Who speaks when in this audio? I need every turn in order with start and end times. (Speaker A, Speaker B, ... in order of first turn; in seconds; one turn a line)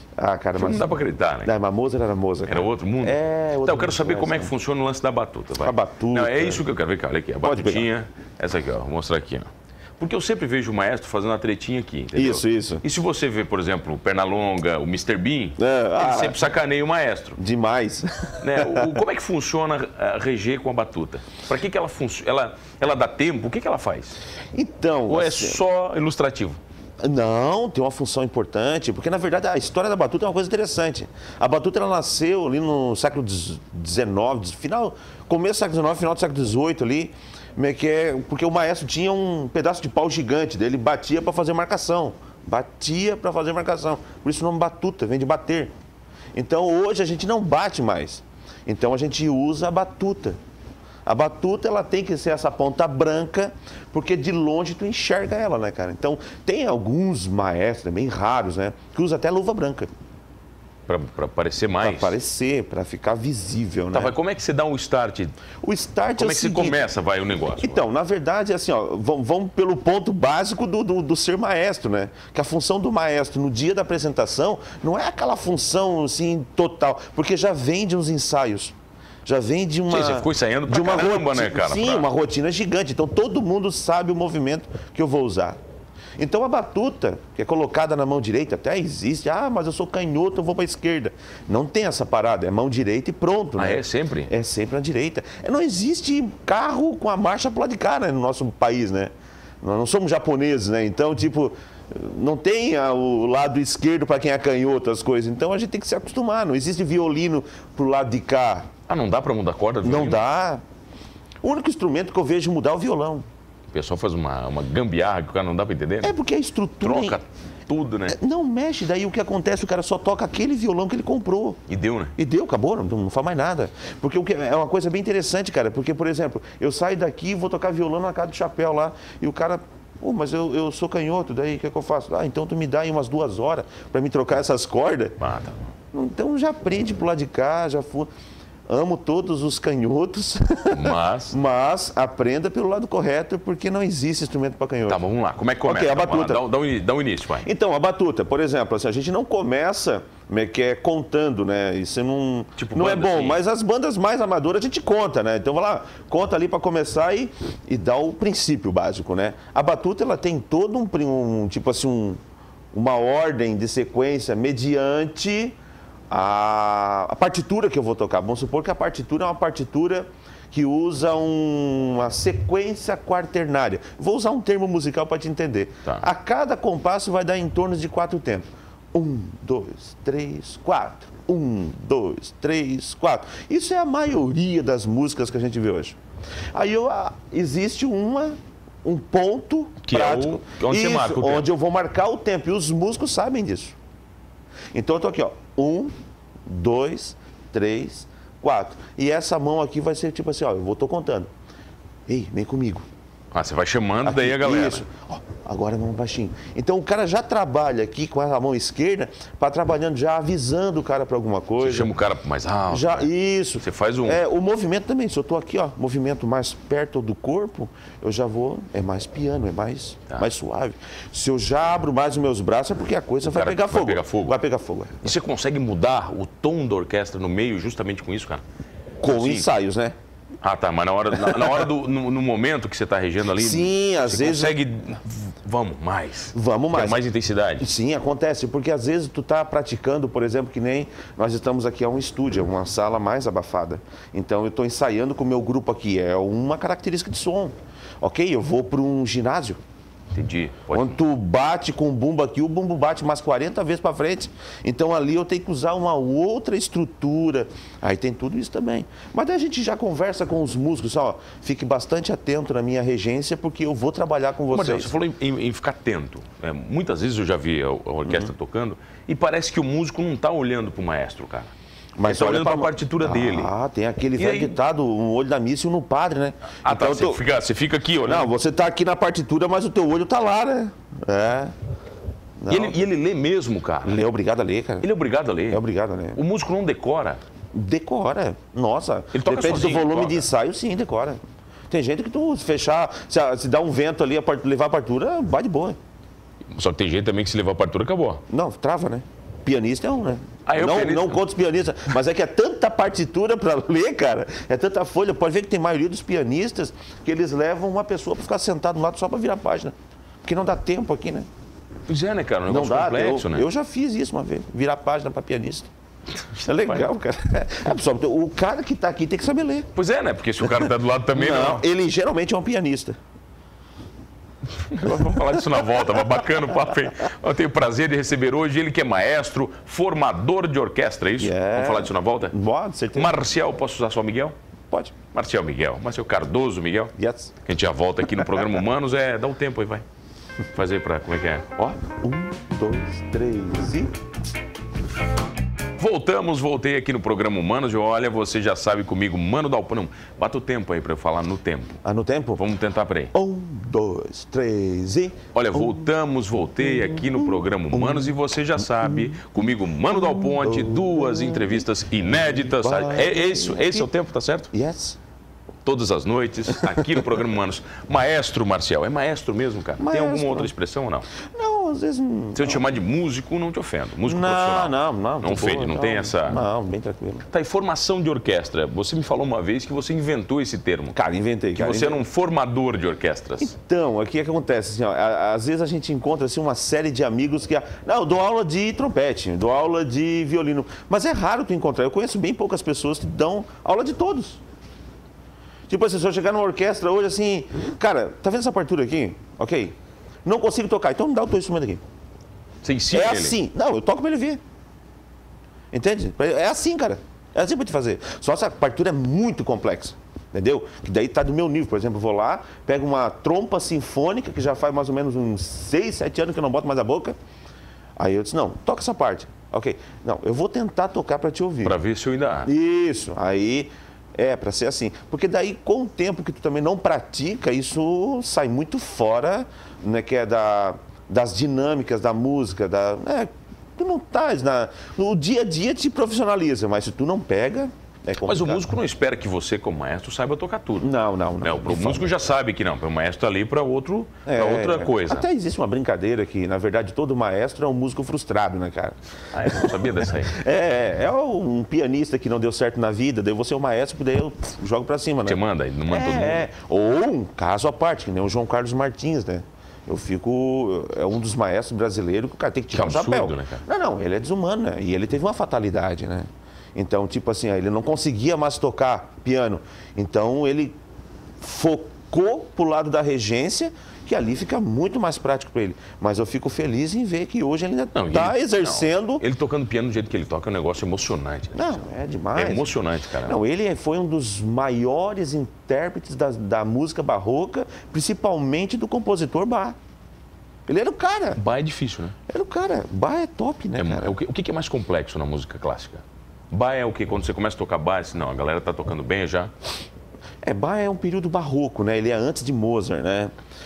Speaker A: 0.2-4.5
Speaker B: 0.6-1.5
Speaker B: 2.5-17.4
Speaker A: 5.6-6.6
Speaker A: 7.4-7.9
Speaker A: 12.2-12.8
Speaker A: 15.6-16.4
Speaker A: 17.4-19.0
Speaker B: 18.4-24.2
Speaker A: 24.5-25.6
Speaker B: 25.1-26.6
Speaker A: 27.0-45.7
Speaker A: 46.4-50.4
Speaker A: 51.1-59.9
Speaker B: 60.9-62.2
Speaker A: 61.8-64.2
Speaker B: 63.9-65.4
Speaker A: 65.6-66.9
Speaker B: 66.2-67.8
Speaker A: 67.6-78.8
Speaker A: 79.3-85.6
Speaker B: 79.9-82.1
Speaker A: 86.2-99.1
Speaker B: 93.6-94.3
Speaker A: 99.6-108.7
Speaker B: 108.9-110.2
Speaker A: 109.8-110.6
Speaker A: 111.4-113.2
Speaker B: 113.7-116.2
Speaker A: 116.0-117.2
Speaker B: 116.8-118.2
Speaker A: 118.1-121.6
Speaker B: 121.7-122.1
Speaker A: 122.2-135.2
Speaker B: 135.2-135.7
Speaker A: 135.9-138.1
Speaker A: 138.7-145.0
Speaker B: 140.7-141.3
Speaker B: 144.9-147.5
Speaker A: 145.7-146.4
Speaker A: 147.4-162.2
Speaker B: 152.6-153.4
Speaker A: 162.7-165.6
Speaker A: 166.1-186.0
Speaker A: 186.5-193.8
Speaker B: 189.8-191.5
Speaker A: 194.7-195.9
Speaker A: 196.5-201.3
Speaker A: 202.1-202.9
Speaker B: 203.3-204.8
Speaker A: 204.1-211.9
Speaker B: 211.6-213.1
Speaker A: 212.7-225.1
Speaker B: 213.6-214.2
Speaker B: 223.3-224.4
Speaker B: 225.0-228.4
Speaker A: 229.0-230.0
Speaker B: 229.0-229.5
Speaker B: 230.4-237.7
Speaker A: 233.4-234.6
Speaker A: 236.3-237.1
Speaker A: 237.6-249.6
Speaker B: 250.1-251.0
Speaker A: 250.7-264.9
Speaker B: 264.5-271.5
Speaker A: 268.1-268.3
Speaker A: 272.0-277.2
Speaker B: 272.1-273.5
Speaker B: 274.2-274.6
Speaker B: 276.6-278.3
Speaker A: 278.1-281.6
Speaker A: 282.4-282.8
Speaker B: 282.5-284.0
Speaker A: 283.9-284.9
Speaker B: 284.8-285.6
Speaker A: 285.5-286.2
Speaker B: 286.2-287.2
Speaker A: 287.5-295.8
Speaker B: 289.1-290.3
Speaker B: 296.6-298.2
Speaker A: 298.3-309.7
Speaker B: 300.5-301.2
Speaker A: 310.2-311.3
Speaker B: 311.9-313.5
Speaker A: 312.5-315.7
Speaker B: 316.4-316.9
Speaker A: 316.4-319.7
Speaker B: 319.8-321.6
Speaker A: 320.4-323.0
Speaker B: 324.6-332.4
Speaker A: 325.4-325.6
Speaker A: 331.2-333.2
Speaker B: 332.9-334.4
Speaker B: 335.1-336.9
Speaker A: 337.0-337.3
Speaker B: 337.4-339.8
Speaker B: 340.6-341.5
Speaker A: 341.6-343.9
Speaker B: 345.8-351.8
Speaker A: 351.8-352.4
Speaker B: 352.4-353.1
Speaker A: 353.1-355.9
Speaker B: 355.3-364.5
Speaker A: 356.7-358.1
Speaker A: 358.8-359.1
Speaker A: 359.9-361.6
Speaker A: 362.5-363.9
Speaker A: 364.5-365.0
Speaker B: 365.6-371.1
Speaker A: 366.6-367.1
Speaker A: 369.8-370.5
Speaker A: 371.2-372.7
Speaker B: 372.4-376.4
Speaker A: 374.1-377.2
Speaker B: 377.3-380.9
Speaker A: 380.9-382.0
Speaker B: 381.6-383.5
Speaker A: 383.4-394.4
Speaker A: 395.7-401.8
Speaker B: 402.6-403.4
Speaker A: 402.9-404.4
Speaker A: 405.7-417.2
Speaker A: 418.0-421.8
Speaker B: 421.6-422.5
Speaker A: 422.5-438.7
Speaker B: 438.2-445.3
Speaker A: 440.8-442.1
Speaker A: 444.3-470.8
Speaker B: 449.3-450.4
Speaker B: 455.3-456.5
Speaker B: 462.7-463.6
Speaker A: 471.4-479.2
Speaker B: 477.9-481.8
Speaker A: 481.6-489.8
Speaker B: 482.4-483.4
Speaker A: 490.7-491.4
Speaker B: 491.4-492.2
Speaker A: 492.3-494.1
Speaker B: 493.8-499.5
Speaker A: 500.4-503.3